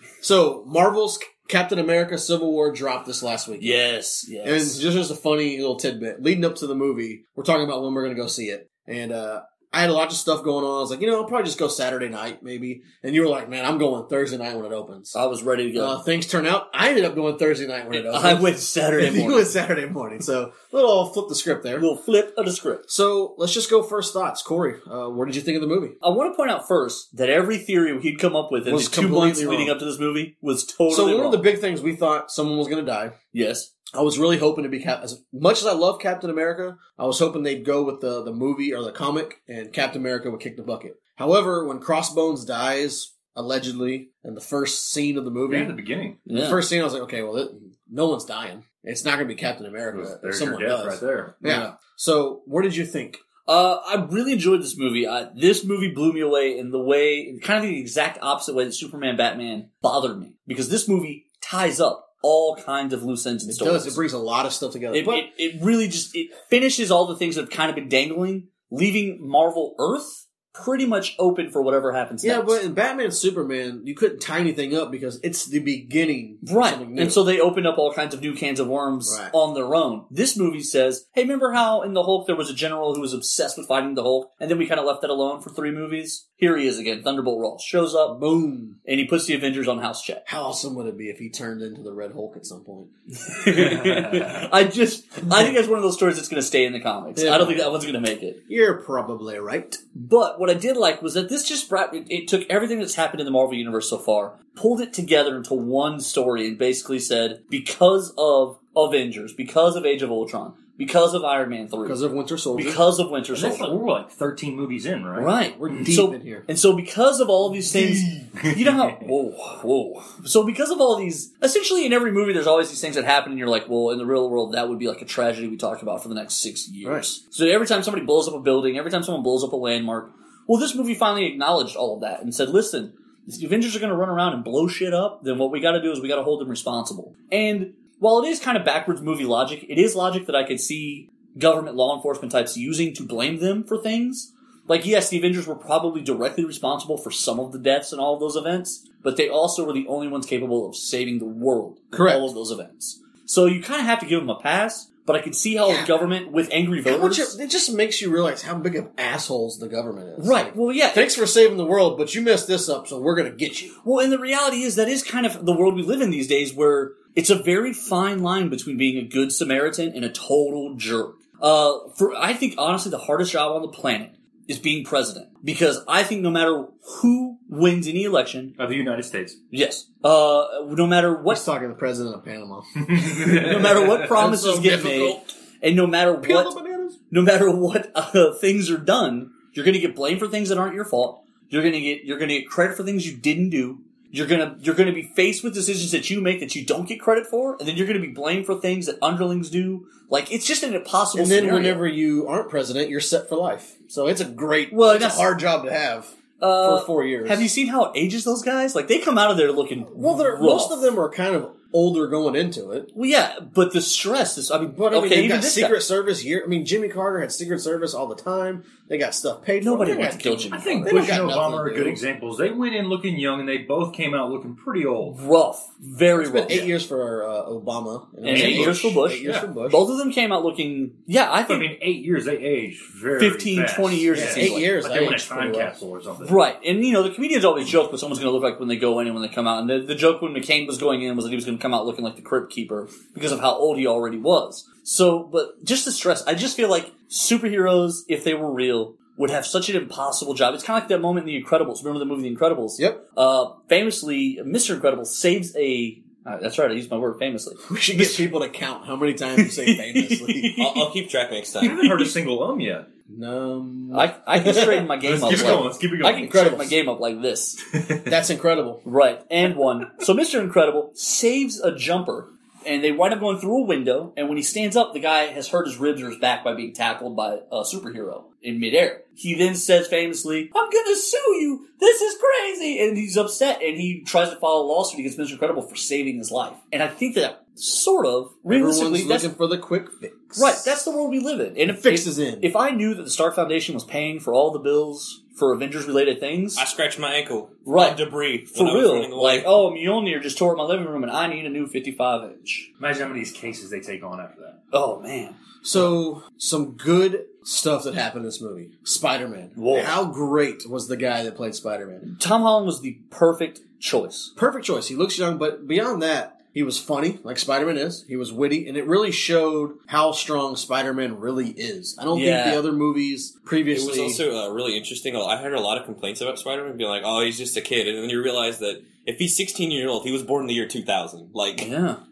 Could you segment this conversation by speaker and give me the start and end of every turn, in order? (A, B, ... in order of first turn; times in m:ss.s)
0:00.2-0:03.8 A
0:03.6-0:04.8 B
0:04.4-0:15.2 A
0:15.1-0:16.0 B
0:15.7-0:21.9 A
0:17.9-0:19.5 B
0:21.8-0:22.8 B
0:22.9-0:26.0 A
0:26.0-0:31.5 B
0:28.6-0:29.8 A
0:30.9-0:33.1 A
0:33.3-0:33.7 B
0:33.9-0:53.2 A
0:45.5-0:46.2 C
0:46.2-0:46.6 B
0:49.9-0:51.6 C
0:53.4-1:04.0 B
1:03.5-1:05.3 A
1:04.9-1:12.6 B
1:12.2-1:17.2 A
1:16.4-1:28.2 B
1:19.0-1:19.3 A
1:28.1-1:28.8 A
1:28.8-1:30.2 B
1:30.2-1:32.9 A
1:33.2-1:38.4 B
1:33.5-1:34.5 C
1:37.2-1:37.8 A
1:38.5-1:39.8 A
1:39.9-1:52.0 B
1:51.8-1:52.8 A
1:52.5-1:53.8 B
1:53.3-1:55.9 C
1:55.1-2:37.3 B
1:55.4-1:56.5 A
1:57.6-1:58.3 A
1:58.4-1:59.1 C
2:31.9-2:32.2 A
2:35.7-2:35.9 A
2:36.8-2:43.8 A
2:40.2-2:41.1 B
2:43.8-2:58.5 B
2:58.6-2:59.4 C
2:59.5-3:01.4 B
3:01.3-3:05.3 A
3:02.9-3:04.0 C
3:03.3-3:06.5 B
3:06.2-3:07.0 A
3:07.1-3:21.8 B
3:21.2-3:27.5 A
3:24.7-3:25.3 B
3:26.4-3:30.9 B
3:29.9-3:32.9 A
3:32.9-3:35.8 B
3:34.7-3:42.0 A
3:39.6-3:41.2 B
3:40.5-3:45.2 C
3:45.1-3:46.6 B
3:46.1-3:49.8 A
3:48.2-3:51.7 B
3:48.3-3:49.5 C
3:51.4-3:56.4 C
3:53.2-3:54.7 B
3:54.1-3:55.8 A
3:56.2-4:18.3 B
4:17.6-4:20.6 A
4:19.4-4:20.9 B
4:20.6-4:22.1 D
4:21.6-4:22.9 C
4:23.1-4:26.7 A
4:23.9-4:27.6 B
4:25.0-4:26.4 C
4:28.0-4:28.8 A
4:28.8-4:49.3 B
4:48.5-4:50.8 A
4:50.4-4:56.6 B
4:51.7-4:52.5 A
4:56.6-4:59.6 D
4:57.6-5:02.7 B
5:02.8-5:04.6 C
5:04.7-5:05.4 B
5:05.6-5:12.1 A
5:09.6-5:10.0 B
5:12.0-5:14.3 B
5:14.4-5:24.2 A
5:22.1-5:22.6 B
5:23.7-5:31.7 D
5:31.6-5:32.0 B